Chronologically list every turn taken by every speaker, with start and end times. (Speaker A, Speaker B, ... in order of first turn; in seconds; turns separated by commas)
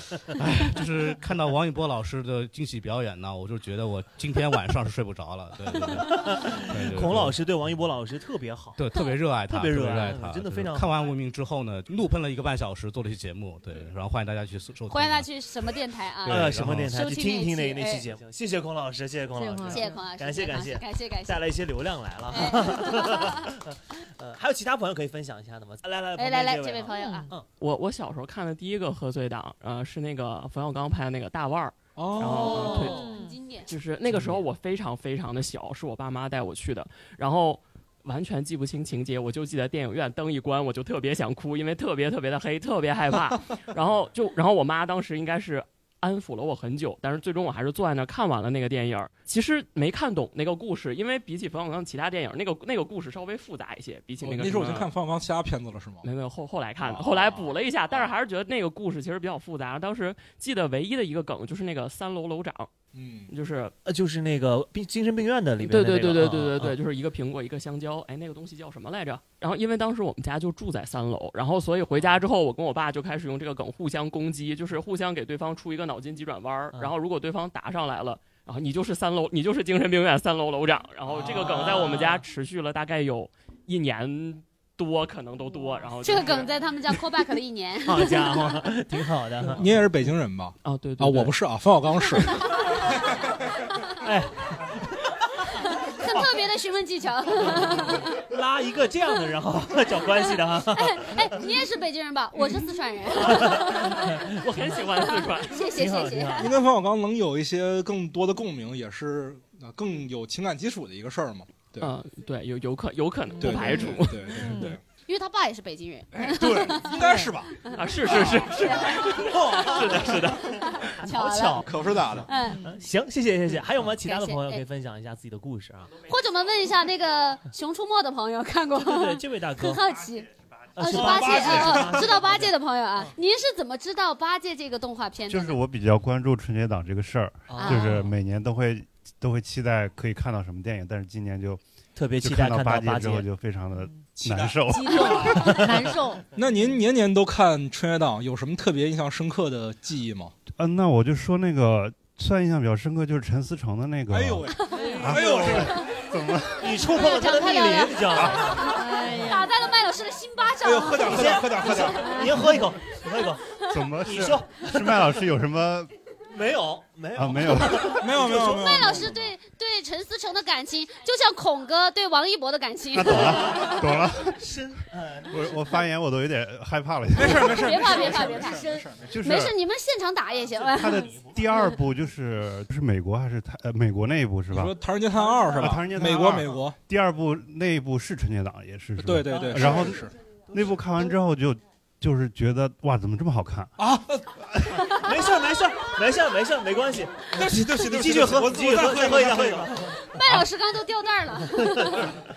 Speaker A: 0.3-7.4, Speaker B: 6.0-8.8, Speaker A: 8.8-15.3, Speaker B: 9.4-10.9, Speaker C: 14.9-18.1, Speaker A: 16.2-16.9, Speaker B: 16.3-27.4, Speaker D: 19.4-20.0, Speaker C: 19.7-21.4, Speaker C: 22.3-23.5, Speaker C: 26.1-27.3, Speaker D: 26.9-27.3, Speaker E: 27.6-33.0, Speaker F: 31.9-32.8, Speaker C: 32.3-33.7, Speaker B: 32.4-33.0, Speaker D: 32.8-33.3, Speaker E: 33.7-54.9, Speaker F: 54.2-56.0, Speaker E: 56.0-62.7, Speaker F: 56.8-58.1, Speaker F: 62.9-63.3, Speaker E: 63.3-63.7, Speaker B: 63.8-66.7, Speaker E: 65.6-86.5, Speaker B: 81.0-82.2, Speaker C: 86.0-88.6, Speaker B: 87.8-89.7, Speaker F: 89.6-92.4, Speaker E: 90.6-91.3, Speaker B: 94.0-94.8, Speaker C: 95.8-98.2, Speaker B: 96.1-96.3, Speaker B: 97.5-101.2, Speaker C: 100.7-104.2, Speaker B: 103.2-104.2, Speaker E: 104.2-105.6, Speaker C: 105.0-106.6, Speaker B: 105.7-106.5, Speaker F: 106.4-111.9, Speaker E: 111.8-114.5, Speaker F: 113.4-114.8, Speaker D: 114.4-114.7, Speaker C: 115.0-117.8, Speaker F: 116.1-117.5, Speaker E: 117.7-119.2, Speaker F: 118.1-120.2, Speaker C: 118.5-121.7, Speaker B: 119.2-126.0, Speaker F: 121.7-122.3, Speaker C: 122.2-122.7, Speaker C: 124.0-124.6, Speaker C: 126.1-135.6, Speaker B: 128.8-129.8, Speaker B: 130.8-132.5, Speaker F: 130.9-132.0, Speaker G: 135.3-141.6, Speaker B: 137.5-138.1, Speaker C: 137.5-138.1, Speaker B: 141.9-143.2, Speaker G: 142.2-145.2, Speaker F: 144.2-145.1, Speaker D: 144.7-146.2, Speaker F: 146.3-150.3, Speaker G: 150.5-156.8, Speaker F: 154.1-155.8, Speaker C: 154.5-154.9, Speaker D: 154.7-155.2, Speaker B: 155.4-155.7, Speaker B: 156.6-158.7, Speaker C: 156.8-162.1, Speaker G: 158.2-158.6, Speaker D: 158.7-159.5, Speaker F: 160.6-162.1, Speaker B: 161.0-163.4, Speaker D: 162.0-162.5, Speaker G: 163.7-165.9, Speaker B: 164.0-165.2, Speaker B: 166.3-169.1, Speaker G: 167.1-168.0, Speaker F: 167.9-169.1, Speaker C: 168.2-173.7, Speaker G: 172.9-174.4, Speaker B: 173.2-173.8, Speaker B: 174.4-175.7, Speaker G: 175.3-178.1, Speaker F: 177.1-179.1, Speaker C: 177.5-181.2, Speaker G: 179.1-179.5, Speaker G: 180.7-184.8, Speaker F: 184.5-186.8, Speaker B: 185.2-185.8, Speaker G: 185.6-193.7, Speaker F: 189.0-190.1, Speaker B: 189.3-189.9, Speaker F: 193.8-194.3, Speaker B: 194.9-200.0, Speaker F: 197.3-199.7, Speaker C: 200.0-202.1